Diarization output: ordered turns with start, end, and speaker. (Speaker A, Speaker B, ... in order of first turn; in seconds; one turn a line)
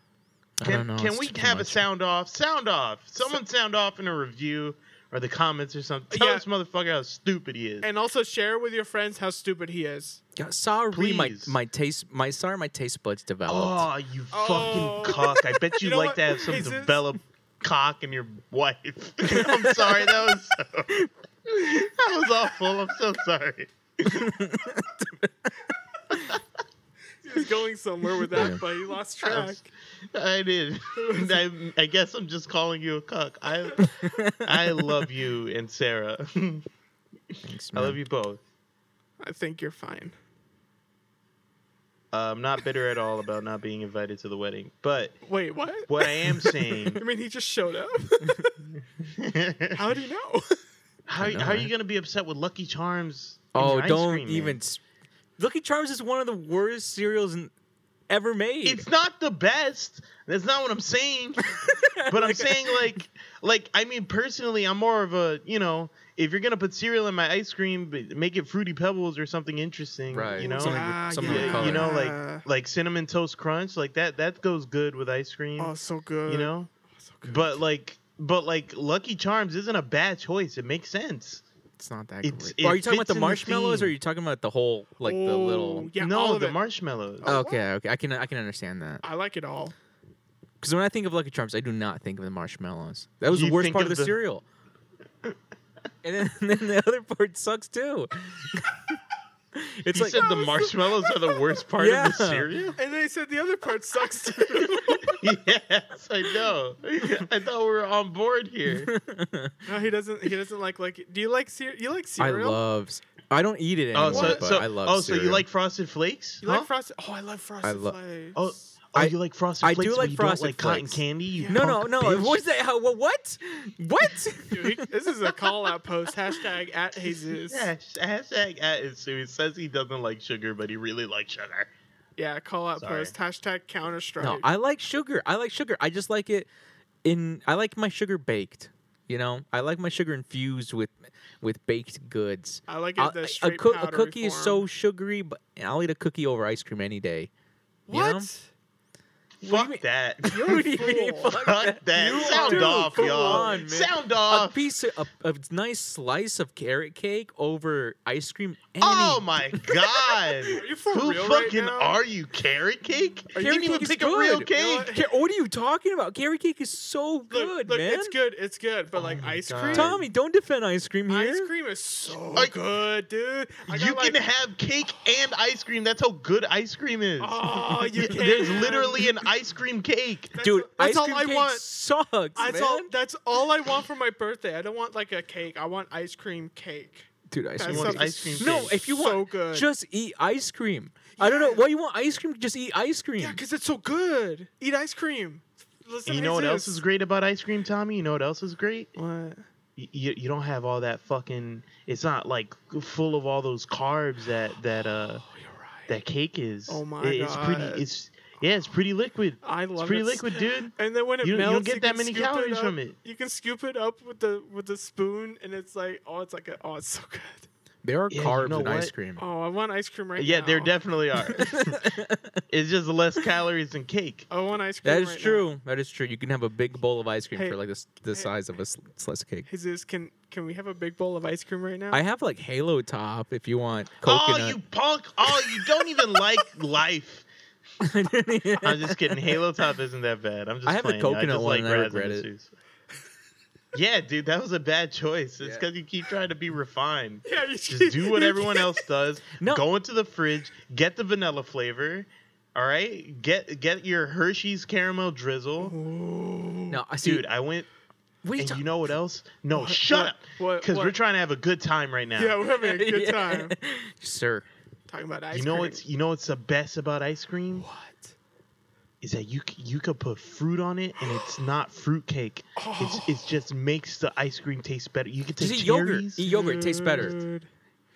Speaker A: 0.6-1.8
Speaker B: 0.6-7.9
Speaker C: 6.1-6.4
Speaker C: 7.8-10.2
Speaker A: 10.3-13.8
Speaker B: 10.9-11.6
Speaker B: 13.5-24.3
Speaker C: 14.3-17.0
Speaker A: 19.2-20.1
Speaker A: 24.0-26.4
Speaker C: 27.2-29.7
Speaker A: 28.3-28.6
Speaker B: 29.2-29.6
Speaker B: 30.1-36.6
Speaker C: 30.9-31.4
Speaker A: 33.8-34.9
Speaker B: 37.3-38.4
Speaker A: 37.4-38.0
Speaker C: 39.2-40.1
Speaker B: 42.1-45.2
Speaker C: 45.2-48.5
Speaker B: 45.9-47.0
Speaker B: 49.0-49.8
Speaker C: 49.7-50.6
Speaker B: 51.1-54.6
Speaker A: 51.2-51.7
Speaker A: 53.5-54.8
Speaker A: 55.4-57.5
Speaker A: 58.1-58.9
Speaker B: 58.6-75.7
Speaker A: 61.5-63.0
Speaker A: 70.1-72.0
Speaker C: 70.3-72.4
Speaker C: 75.6-77.6
Speaker B: 76.2-76.7
Speaker B: 77.2-81.4
Speaker A: 81.8-85.9
Speaker B: 82.2-83.9
Speaker C: 85.0-86.6
Speaker B: 86.0-87.4
Speaker C: 87.2-87.6
Speaker A: 87.2-89.0
Speaker C: 89.0-89.7
Speaker A: 90.6-94.4
Speaker B: 93.3-94.2
Speaker A: 96.0-99.0
Speaker A: 99.5-100.2
Speaker B: 99.9-102.8
Speaker C: 100.2-100.7
Speaker A: 101.8-102.5
Speaker C: 102.8-105.2
Speaker B: 105.1-108.9
Speaker A: 108.8-109.5
Speaker C: 109.7-112.6
Speaker A: 112.2-115.4
Speaker B: 113.9-116.7
Speaker C: 114.0-114.5
Speaker C: 116.4-118.7
Speaker A: 117.6-118.0
Speaker B: 118.3-122.4
Speaker A: 118.9-124.9
Speaker C: 121.4-121.6
Speaker C: 124.5-127.7
Speaker B: 127.3-131.7
Speaker C: 132.2-134.4
Speaker B: 132.8-133.1
Speaker A: 134.2-136.5
Speaker A: 137.0-147.3
Speaker C: 142.7-144.6
Speaker C: 147.9-148.5
Speaker A: 147.9-148.3
Speaker B: 149.4-150.6
Speaker A: 149.4-160.5
Speaker C: 150.3-151.3
Speaker B: 151.3-154.6
Speaker C: 152.0-153.6
Speaker B: 158.8-164.9
Speaker C: 160.5-162.0
Speaker A: 163.3-168.1
Speaker C: 163.4-163.8
Speaker C: 164.5-165.1
Speaker C: 167.3-170.0
Speaker B: 168.9-170.0
Speaker A: 169.7-171.5
Speaker C: 171.1-174.2
Speaker B: 173.7-180.3
Speaker C: 177.2-179.1
Speaker C: 180.3-181.7
Speaker A: 180.4-182.9
Speaker C: 182.3-189.7
Speaker A: 187.3-193.4
Speaker B: 187.6-188.8
Speaker C: 191.1-191.6
Speaker C: 193.2-196.8
Speaker B: 196.1-198.9
Speaker C: 198.9-199.4
Speaker B: 199.8-205.2
Speaker C: 205.2-205.9
Speaker B: 205.9-212.9
Speaker C: 206.7-207.8
Speaker C: 209.4-217.5
Speaker A: 217.8-219.2
Speaker B: 218.1-218.9
Speaker C: 219.2-220.7
Speaker B: 220.2-221.8
Speaker A: 221.3-222.4
Speaker B: 222.5-224.3
Speaker C: 224.3-225.5
Speaker A: 224.8-229.5
Speaker C: 229.5-232.0
Speaker A: 231.9-234.6
Speaker B: 234.0-237.2
Speaker A: 237.8-239.3
Speaker B: 238.6-242.5
Speaker A: 240.7-242.2
Speaker B: 243.7-255.7
Speaker C: 247.2-248.8
Speaker A: 249.4-249.6
Speaker C: 255.6-256.8
Speaker A: 256.7-257.2
Speaker B: 257.0-257.7
Speaker A: 258.2-258.6
Speaker B: 258.4-262.4
Speaker C: 259.5-260.9
Speaker C: 262.2-263.6
Speaker A: 262.6-264.4
Speaker C: 264.9-265.8
Speaker B: 265.3-267.6
Speaker C: 267.6-268.1
Speaker B: 269.0-276.2
Speaker C: 272.6-273.3
Speaker A: 275.4-277.2
Speaker C: 276.2-277.5